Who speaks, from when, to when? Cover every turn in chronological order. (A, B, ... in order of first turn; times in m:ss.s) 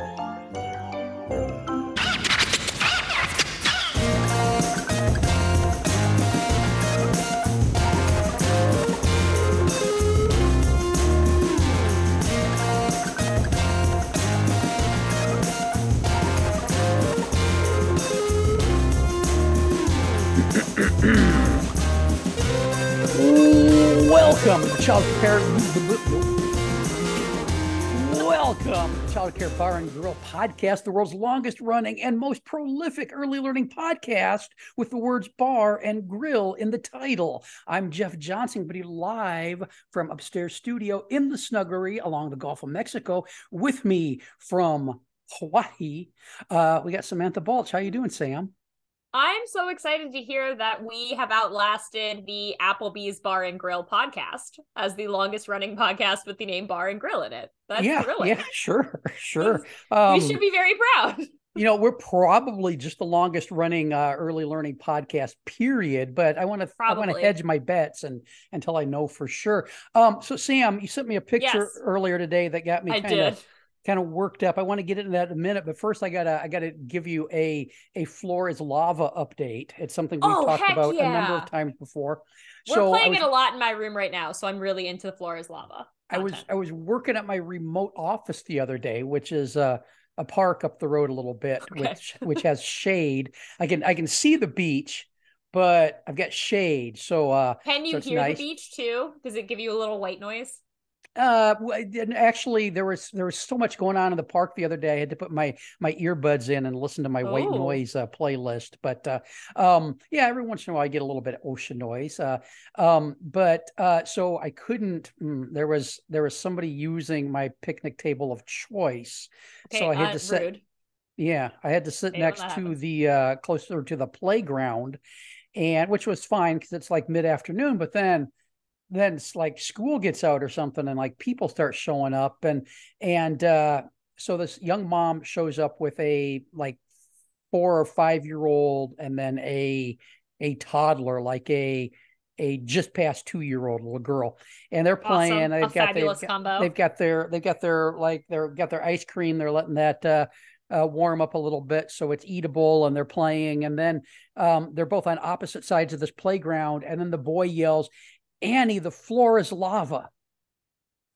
0:20.4-0:21.6 A
0:23.1-0:26.3 A
0:27.9-0:48.5 A
0:49.1-0:58.5 B
0:57.8-1:00.4 A
0:59.4-1:01.6 B
1:01.6-1:23.3 A
1:06.8-1:07.3 B
1:11.4-1:11.8 B
1:12.9-1:13.4 B
1:20.2-1:21.5 B
1:22.7-1:26.4 B
1:26.1-1:38.4 A
1:31.6-1:32.4 B
1:37.6-1:40.6 B
1:41.2-2:00.4 A
1:47.2-1:47.8 B
1:59.7-2:00.6 B
2:01.2-2:05.0 A
2:02.1-2:02.7 B
2:05.5-2:08.3 A
2:08.9-2:16.8 A
2:17.5-2:37.9 A
2:25.0-2:26.7 B
2:38.4-2:40.1 A